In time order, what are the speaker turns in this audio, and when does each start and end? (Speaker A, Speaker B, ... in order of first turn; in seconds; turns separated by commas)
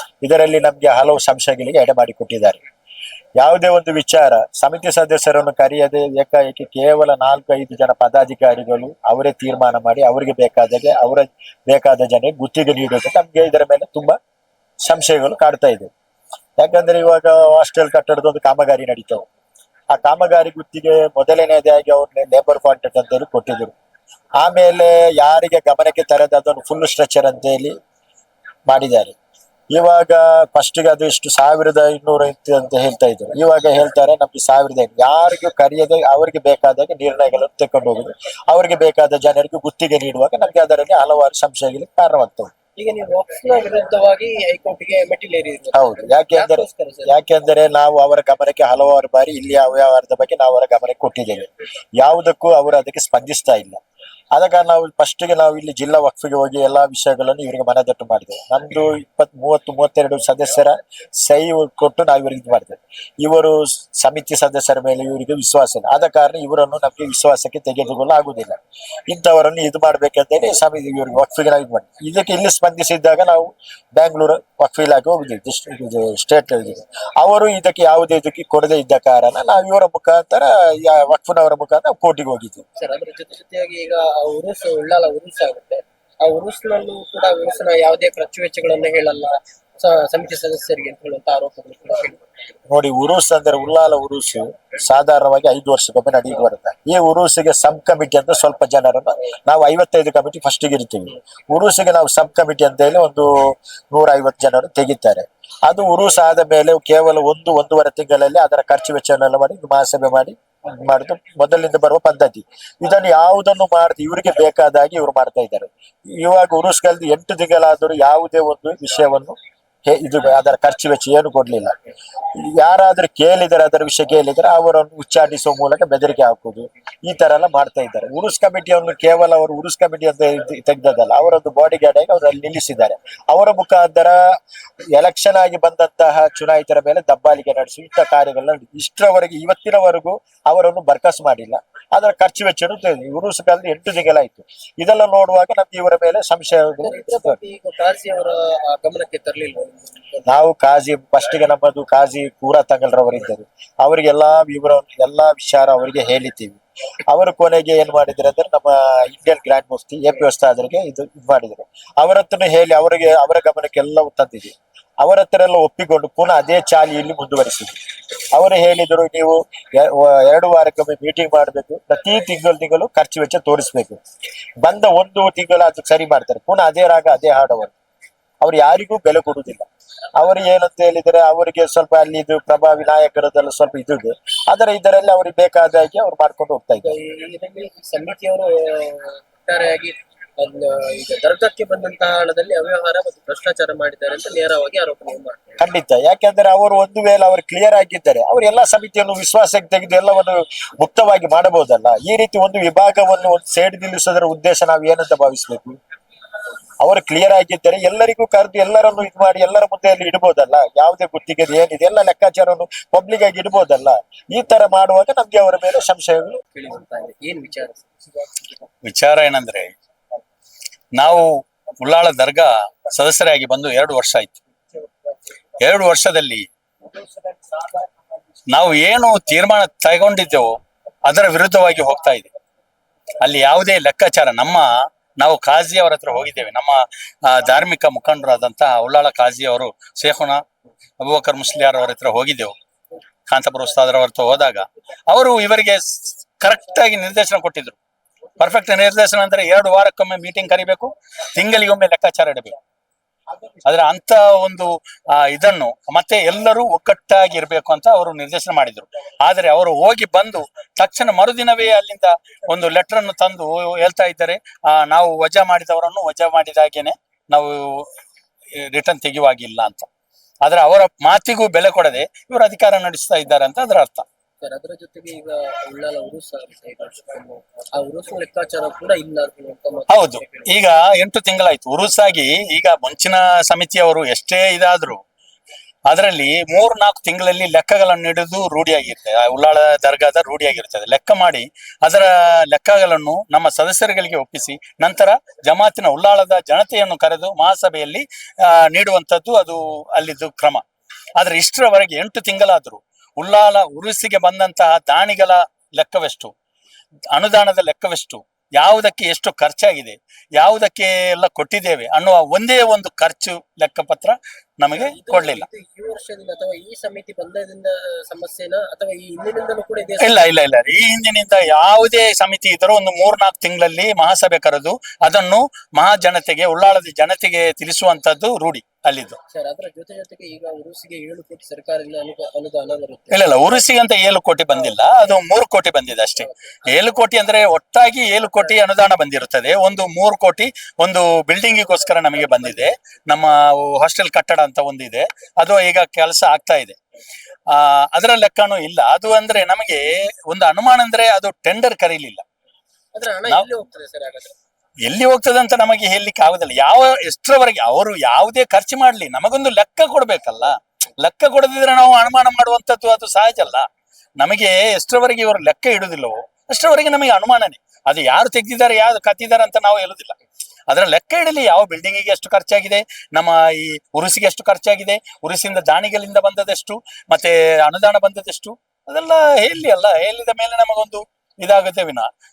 Speaker A: 0.2-2.6, Speaker A: 3.4-14.2, Speaker A: 14.8-15.9, Speaker A: 16.6-19.2, Speaker A: 19.9-23.7, Speaker A: 24.4-27.7, Speaker A: 28.7-29.1, Speaker A: 29.7-42.5, Speaker B: 42.8-47.2, Speaker A: 45.7-53.8, Speaker A: 54.3-68.5, Speaker A: 69.1-82.6, Speaker B: 82.8-92.2, Speaker A: 92.7-121.7, Speaker A: 122.3-134.2, Speaker A: 134.9-147.4, Speaker B: 146.8-150.2, Speaker A: 150.3-167.8, Speaker A: 168.3-174.0, Speaker A: 174.6-177.7, Speaker A: 178.4-179.7, Speaker A: 180.2-186.9, Speaker B: 186.8-195.6, Speaker A: 195.6-205.8, Speaker A: 206.8-216.4, Speaker B: 216.5-217.9, Speaker C: 218.8-219.7, Speaker C: 220.9-221.3, Speaker C: 221.8-224.4, Speaker C: 225.6-226.4, Speaker C: 228.5-230.5, Speaker C: 231.0-232.3, Speaker C: 233.2-240.4, Speaker C: 241.0-242.5, Speaker C: 243.3-247.8, Speaker C: 248.4-252.6, Speaker C: 253.6-267.9, Speaker C: 268.6-269.9, Speaker C: 270.4-274.0, Speaker B: 274.4-280.5, Speaker C: 279.9-285.0, Speaker C: 285.9-300.6, Speaker C: 301.2-306.3, Speaker C: 307.1-315.4, Speaker B: 314.7-320.3, Speaker C: 320.0-329.2, Speaker B: 329.3-333.6, Speaker C: 333.1-346.8, Speaker C: 347.5-352.2, Speaker B: 352.9-354.3, Speaker C: 354.9-363.6, Speaker C: 364.2-370.1, Speaker C: 370.7-382.1